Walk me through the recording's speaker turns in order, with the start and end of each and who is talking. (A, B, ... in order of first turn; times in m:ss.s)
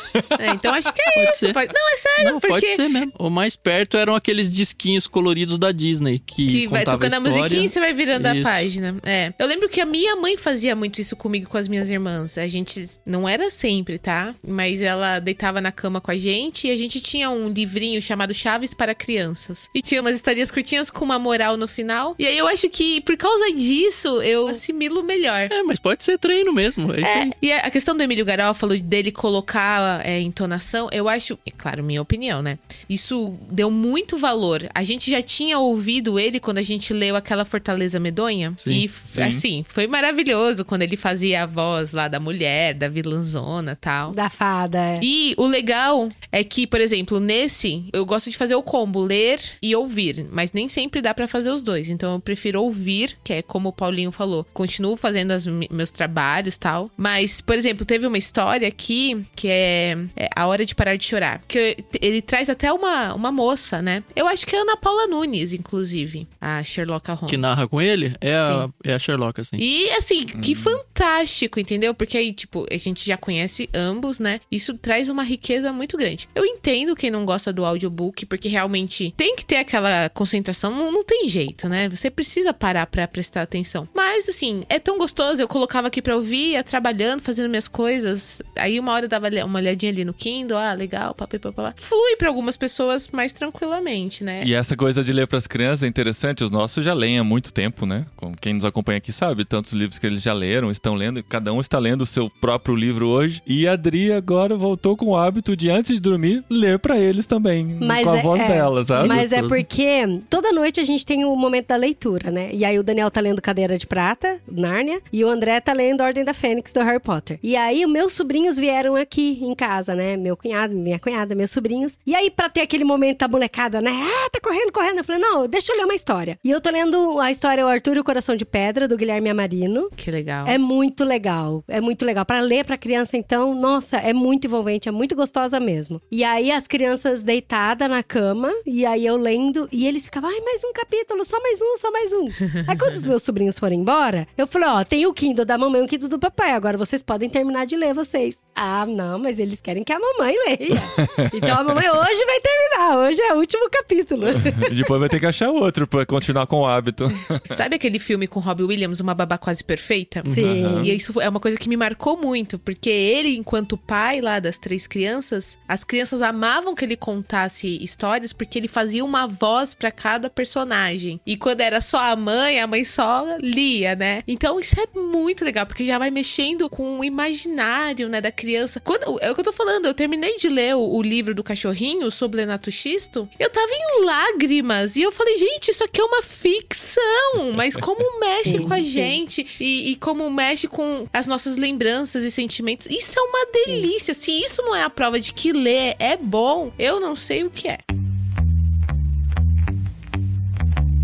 0:00.2-0:00.4 A
0:00.4-0:02.8 B
0:01.1-0:01.6 C
0:02.2-0:08.7 C
0:06.5-0:25.5 B
0:25.5-0:27.3 C
0:27.0-0:44.2 B
0:39.1-0:39.4 A
0:44.1-0:45.0 D
0:45.0-1:07.6 B
1:07.3-1:09.6 C
1:08.4-1:08.7 B
1:09.6-1:34.5 B
1:10.4-1:10.8 A
1:34.4-1:49.2 A
1:47.8-2:09.9 D
1:48.9-1:49.7 C
2:10.0-2:10.6 B
2:10.4-2:34.8 D
2:31.0-2:31.6 A
2:34.4-2:37.5 A
2:37.5-3:17.8 B
2:40.2-2:40.5 C
2:40.3-2:41.0 D
2:40.4-2:40.9 A
3:08.4-3:09.2 D